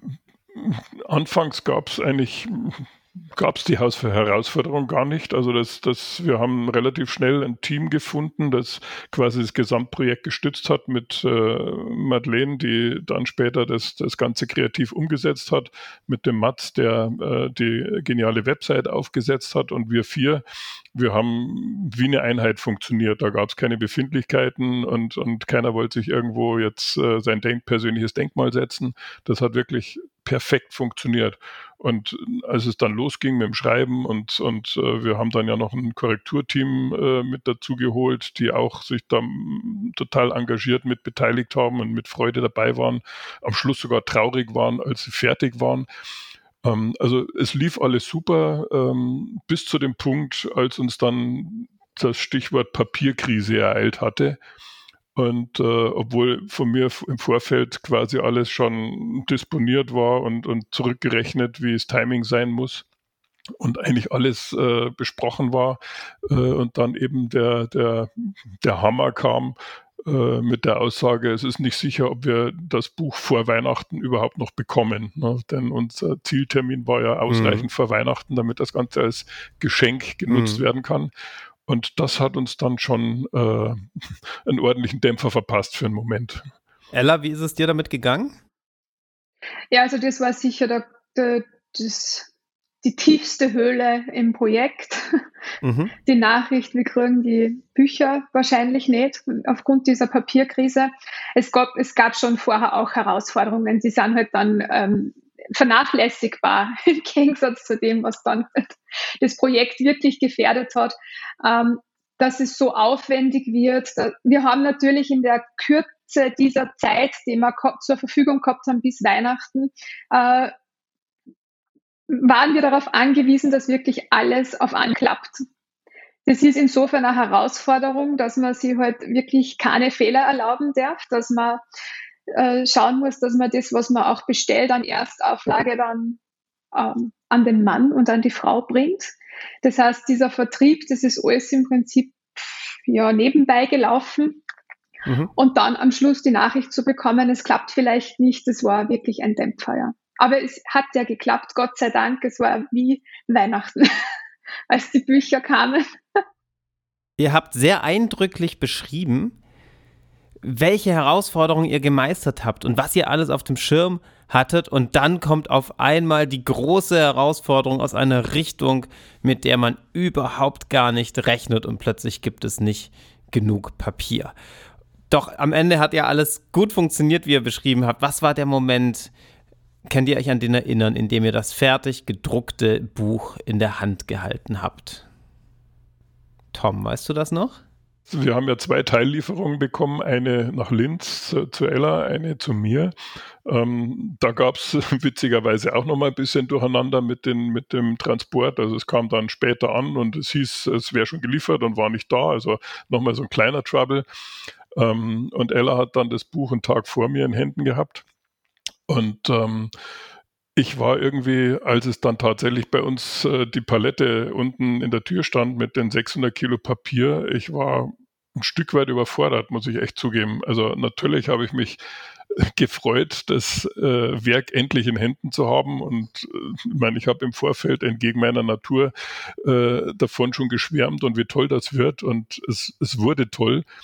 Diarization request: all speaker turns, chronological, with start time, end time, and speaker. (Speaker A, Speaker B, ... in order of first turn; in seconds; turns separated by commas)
Speaker A: 0.5-20.4, Speaker A: 20.9-45.9, Speaker A: 46.6-54.4, Speaker A: 55.1-62.8, Speaker A: 63.6-81.1, Speaker B: 77.3-77.6, Speaker B: 80.3-80.6, Speaker A: 81.7-83.8, Speaker A: 84.5-86.5, Speaker B: 86.9-88.4, Speaker C: 89.7-92.3, Speaker C: 92.8-95.2, Speaker B: 95.6-95.9, Speaker C: 96.0-120.5, Speaker C: 122.1-125.4, Speaker C: 126.2-131.6, Speaker C: 132.3-136.2, Speaker C: 136.7-144.4, Speaker B: 145.0-145.3, Speaker C: 145.3-154.1, Speaker C: 154.7-155.8, Speaker B: 157.2-159.4, Speaker B: 160.4-174.3, Speaker B: 175.1-179.1, Speaker B: 179.9-185.1, Speaker B: 186.5-187.6, Speaker A: 188.1-192.9, Speaker A: 193.4-204.0, Speaker A: 204.8-208.0, Speaker A: 208.9-209.7, Speaker A: 210.6-221.8, Speaker A: 222.4-228.9, Speaker A: 229.4-233.6